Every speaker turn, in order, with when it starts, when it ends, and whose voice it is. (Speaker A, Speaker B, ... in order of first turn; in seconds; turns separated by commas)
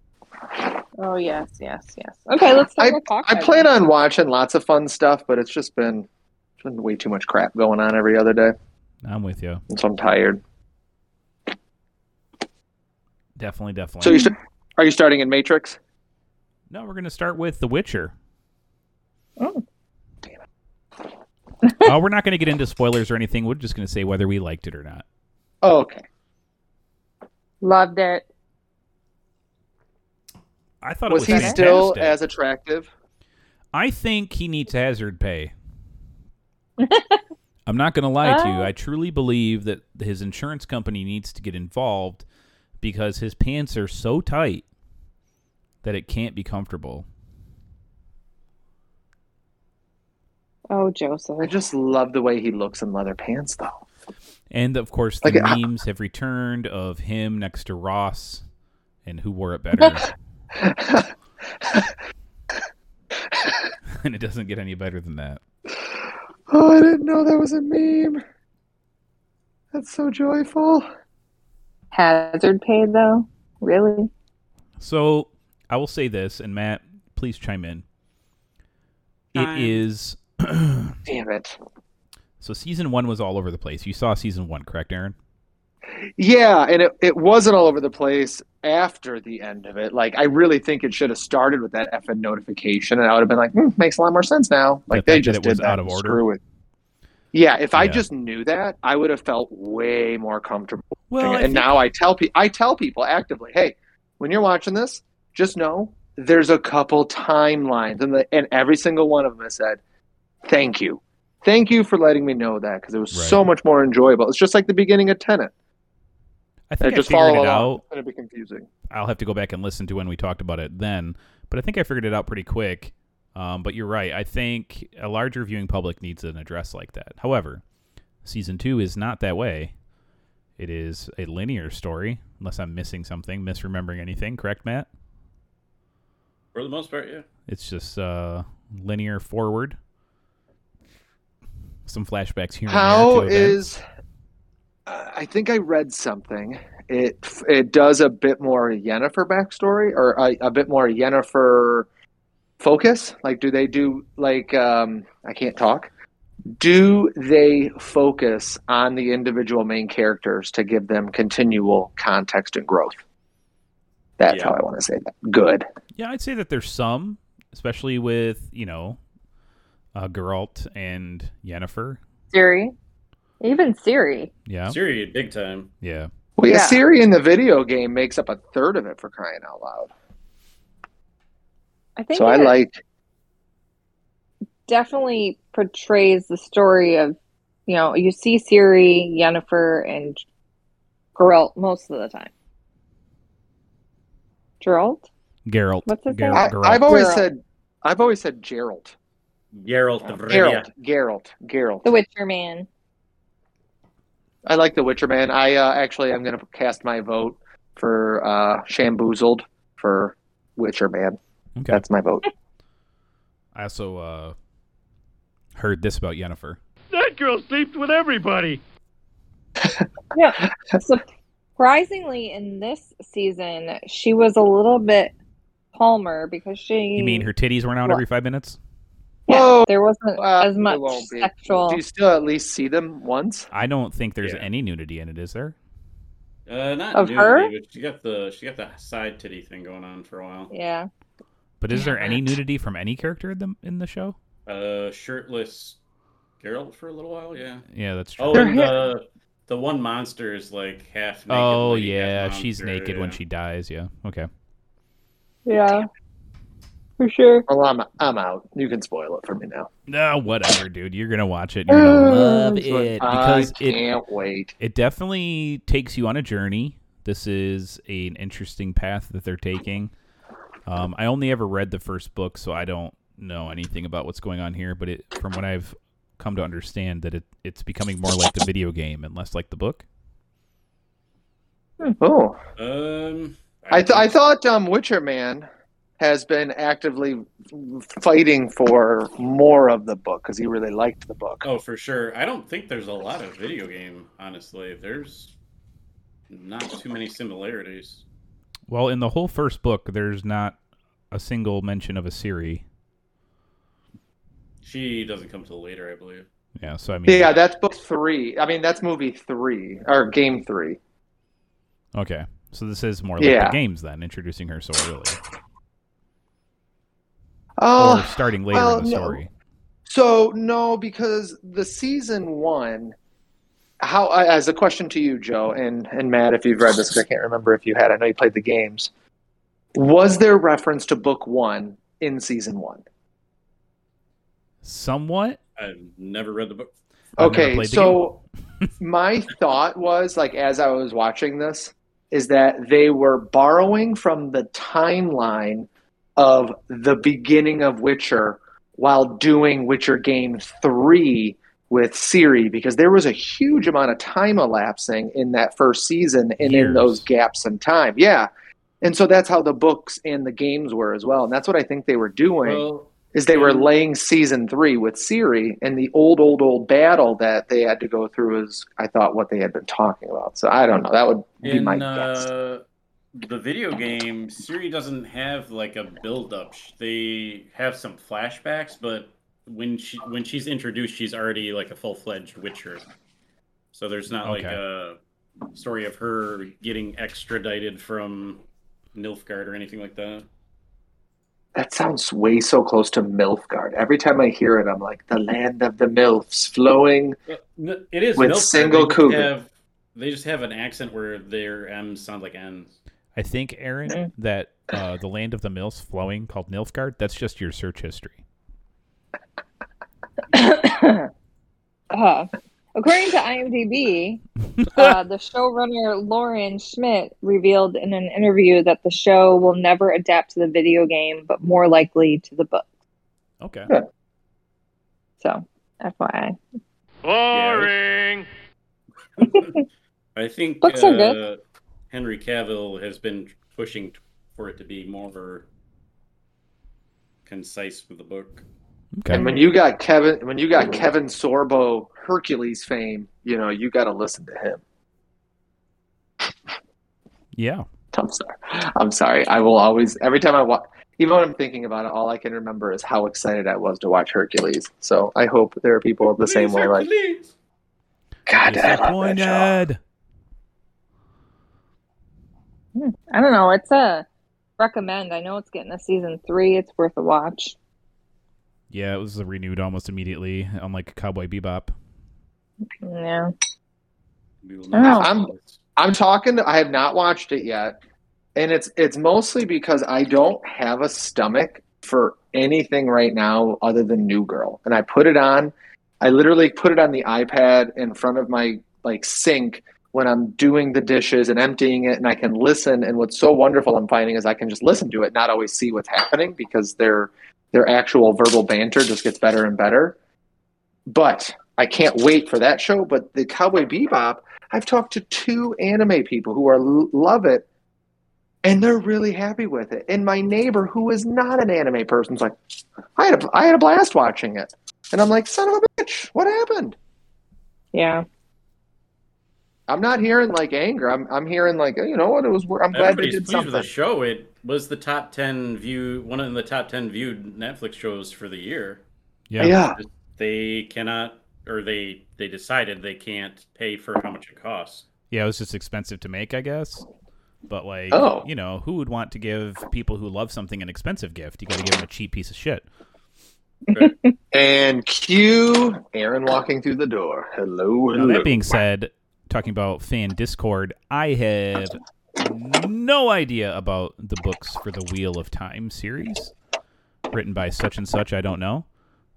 Speaker A: 1.0-3.7, Speaker B: 2.8-6.1, Speaker B: 6.6-8.5, Speaker C: 9.0-9.6, Speaker B: 9.7-10.4, Speaker C: 13.4-14.2, Speaker B: 14.0-15.8, Speaker C: 16.7-18.1, Speaker A: 19.4-19.6, Speaker C: 21.8-25.0, Speaker B: 25.6-26.0, Speaker A: 27.6-28.2, Speaker C: 30.8-32.2, Speaker B: 31.1-32.9, Speaker A: 31.2-31.6, Speaker C: 33.7-35.5, Speaker A: 36.8-37.2, Speaker C: 37.7-42.2, Speaker A: 38.2-38.7, Speaker C: 42.8-44.6, Speaker C: 45.8-47.0, Speaker A: 50.7-51.5, Speaker B: 51.4-53.8, Speaker C: 54.5-58.4, Speaker B: 55.2-55.6, Speaker C: 59.0-60.1, Speaker B: 60.6-61.1, Speaker B: 61.6-61.9, Speaker C: 63.9-65.4, Speaker B: 66.5-68.2, Speaker B: 69.7-70.9, Speaker A: 71.9-74.1, Speaker C: 74.8-77.8, Speaker D: 79.3-79.8, Speaker C: 79.3-81.0, Speaker B: 81.0-81.6, Speaker C: 82.4-85.2, Speaker B: 86.2-96.4, Speaker C: 94.9-96.2, Speaker B: 97.3-109.8, Speaker C: 97.7-98.0, Speaker C: 101.1-101.9, Speaker B: 110.5-115.5, Speaker C: 113.1-113.4, Speaker C: 116.7-117.8, Speaker B: 116.8-118.7, Speaker C: 118.9-127.6, Speaker C: 128.2-129.7, Speaker C: 130.6-134.9, Speaker D: 136.5-137.2, Speaker C: 137.5-139.8, Speaker C: 141.8-143.6, Speaker B: 142.7-143.8, Speaker B: 144.9-151.9, Speaker B: 152.6-155.9, Speaker B: 156.6-163.0, Speaker B: 164.2-165.7, Speaker D: 164.2-164.6, Speaker C: 165.9-169.0, Speaker C: 169.9-172.0, Speaker A: 172.3-172.7, Speaker A: 173.4-174.3, Speaker C: 174.4-174.8, Speaker D: 174.7-175.7, Speaker C: 175.8-176.1, Speaker B: 176.4-179.9, Speaker A: 176.4-176.8, Speaker A: 182.0-182.6, Speaker B: 182.1-182.8, Speaker A: 184.7-187.2, Speaker A: 187.7-190.2, Speaker A: 191.2-192.3, Speaker A: 194.6-195.1, Speaker C: 195.4-197.1, Speaker A: 195.8-197.2, Speaker B: 196.3-198.9, Speaker D: 199.5-200.7, Speaker B: 200.3-201.9, Speaker A: 201.8-202.7, Speaker B: 204.4-211.2, Speaker C: 211.6-211.8, Speaker B: 211.7-212.2, Speaker C: 213.5-214.3, Speaker C: 215.5-216.6, Speaker E: 216.9-218.6, Speaker A: 220.1-221.0, Speaker A: 221.6-225.1, Speaker A: 225.7-227.3, Speaker C: 226.9-228.6, Speaker A: 229.3-231.8, Speaker B: 229.3-233.5, Speaker C: 233.5-235.5, Speaker D: 234.2-234.5, Speaker D: 236.5-240.5, Speaker A: 236.9-237.5, Speaker A: 240.5-240.9, Speaker C: 241.6-244.2, Speaker A: 241.7-242.2, Speaker D: 244.4-245.8, Speaker D: 246.4-247.6, Speaker C: 247.7-248.6, Speaker D: 248.2-253.2, Speaker B: 248.3-248.8, Speaker C: 251.3-254.3, Speaker A: 255.4-255.9, Speaker A: 257.0-257.4, Speaker B: 257.5-259.7, Speaker C: 259.9-263.8, Speaker B: 261.7-264.5, Speaker C: 264.6-269.9, Speaker C: 270.6-279.8, Speaker B: 282.0-282.4, Speaker D: 282.6-284.1, Speaker B: 283.7-285.5, Speaker B: 286.0-291.5, Speaker D: 291.4-295.3, Speaker D: 296.3-298.0, Speaker C: 298.7-300.6, Speaker C: 301.1-302.6, Speaker D: 304.6-306.2, Speaker C: 306.6-307.3, Speaker B: 307.1-310.8, Speaker C: 311.9-315.2, Speaker B: 313.2-313.6, Speaker B: 317.6-319.2, Speaker C: 317.8-319.3, Speaker B: 319.9-322.9, Speaker B: 323.8-328.9, Speaker B: 329.8-332.8, Speaker C: 334.6-335.4, Speaker D: 335.6-336.7, Speaker B: 337.2-338.2, Speaker C: 337.2-338.0, Speaker B: 338.8-358.3, Speaker C: 356.4-357.1, Speaker B: 358.8-372.3, Speaker D: 362.4-363.7, Speaker D: 371.4-372.6, Speaker D: 373.1-382.8, Speaker D: 383.7-385.0, Speaker C: 384.2-384.6, Speaker D: 385.5-388.4, Speaker D: 388.9-390.3, Speaker B: 391.5-397.2, Speaker D: 397.3-402.7, Speaker B: 398.2-399.3, Speaker C: 403.1-408.2, Speaker A: 410.3-411.1, Speaker A: 411.9-422.6, Speaker C: 414.6-414.9, Speaker C: 423.4-423.7, Speaker A: 425.2-426.4, Speaker E: 427.0-428.3, Speaker D: 427.3-427.7, Speaker D: 429.2-429.6, Speaker D: 430.1-435.4, Speaker A: 430.6-431.2, Speaker D: 437.2-438.4, Speaker C: 439.0-439.3, Speaker B: 439.1-444.6, Speaker A: 439.1-439.5, Speaker C: 447.3-447.6, Speaker B: 447.9-456.9, Speaker D: 456.0-457.3, Speaker B: 458.3-459.5, Speaker C: 458.4-459.8, Speaker A: 462.7-464.1, Speaker A: 464.6-467.5, Speaker C: 468.7-471.7, Speaker A: 472.8-473.3, Speaker D: 474.4-475.6, Speaker A: 474.7-475.1, Speaker B: 474.9-477.7, Speaker B: 478.4-499.9, Speaker B: 500.9-507.4, Speaker B: 508.4-512.4, Speaker B: 513.0-516.8, Speaker A: 517.7-518.0, Speaker B: 519.7-523.7, Speaker D: 522.7-528.8, Speaker C: 529.3-529.6, Speaker B: 529.4-529.8, Speaker D: 529.8-534.9, Speaker C: 535.1-536.8, Speaker C: 537.5-542.6, Speaker B: 537.9-538.2, Speaker B: 544.3-548.4, Speaker C: 547.9-556.3, Speaker C: 557.1-558.6